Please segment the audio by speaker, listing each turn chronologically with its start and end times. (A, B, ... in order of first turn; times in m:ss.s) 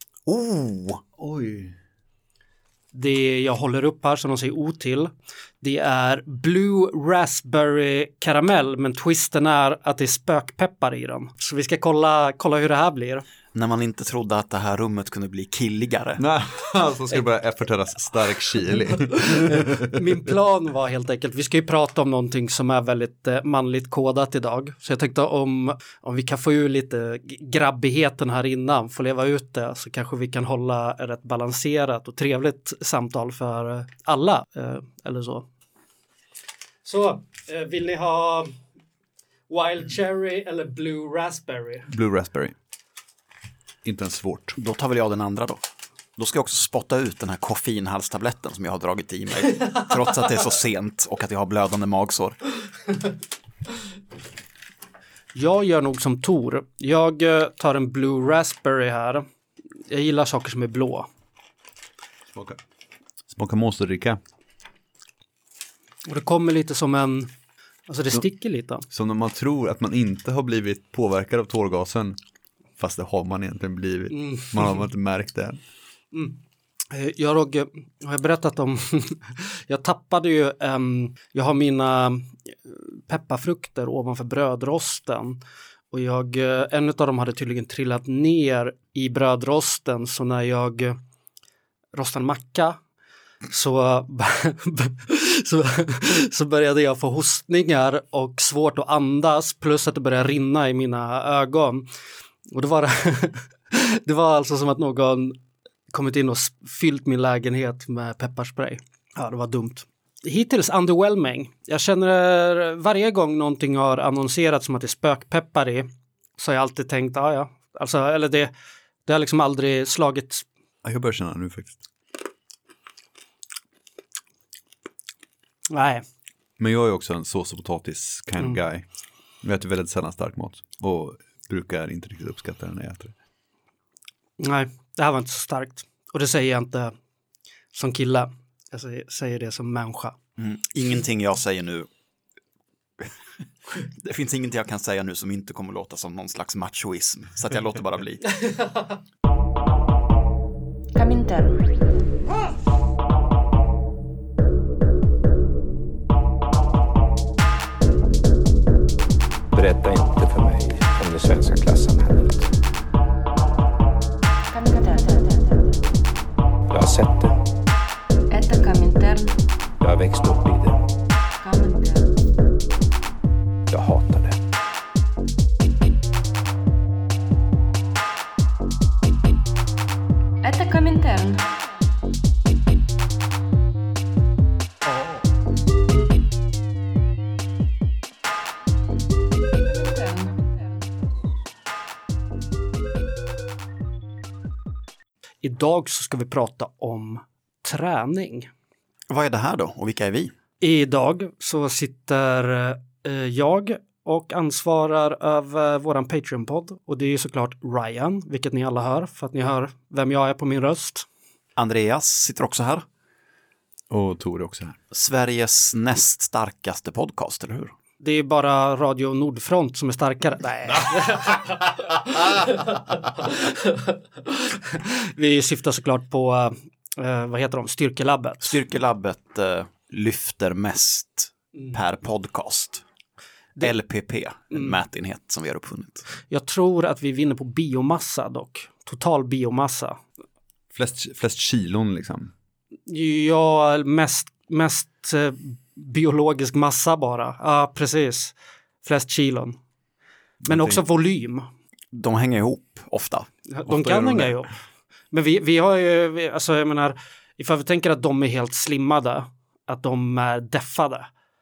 0:00.3-0:01.0 A
0:01.2-0:01.8 B
0:02.9-0:13.2 C
0:13.5-0:16.2 A
0:16.2-0:20.0 B
0:19.0-0:35.5 C
0:36.8-0:38.6 C
0:39.5-0:41.9 C
0:41.9-0:42.6 B
0:43.8-0:44.6 B
0:44.6-0:45.6 A
0:46.2-0:52.4 A
0:55.4-0:59.3 C
0:59.9-1:01.1 C
1:02.3-1:02.6 B
1:03.3-1:04.2 B
1:06.0-1:07.3 C
1:07.9-1:08.9 C
1:08.9-1:12.2 B
1:12.8-1:15.6 B
1:14.1-1:14.5 C
1:16.1-1:16.4 C
1:16.9-1:25.4 C
1:25.9-1:31.0 C
1:31.9-1:32.8 C
1:33.5-1:41.9 C
1:42.5-1:45.4 C
1:45.9-1:58.5 C
1:59.1-2:00.4 C
2:00.8-2:01.8 B
2:05.7-2:06.0 C
2:06.6-2:08.8 B
2:09.4-2:13.1 B
2:14.4-2:17.0 C
2:17.7-2:20.2 C
2:20.4-2:21.9 A
2:23.9-2:28.4 A
2:31.0-2:31.6 D
2:39.5-2:42.5 E
2:44.5-2:45.7 D
2:46.7-2:47.4 E
2:48.3-2:49.4 D
2:49.8-2:50.8 E
2:51.4-2:52.1 D
2:53.7-2:54.4 E
3:00.4-3:01.5 D
3:09.5-3:10.5 D
3:15.4-3:18.5 C
3:19.1-3:20.3 A
3:20.6-3:31.1 C
3:31.6-3:32.9 A
3:33.9-3:34.8 B
3:34.9-3:37.7 A
3:38.0-3:48.6 C
3:48.4-3:52.8 A
3:53.6-3:56.1 A
3:56.3-4:00.0 C
4:00.7-4:02.3 B
4:02.9-4:09.6 C
4:10.4-4:10.8 B
4:10.5-4:11.5 C
4:11.9-4:13.3 A
4:13.5-4:14.5 C
4:13.7-4:14.4 B
4:15.1-4:21.1 C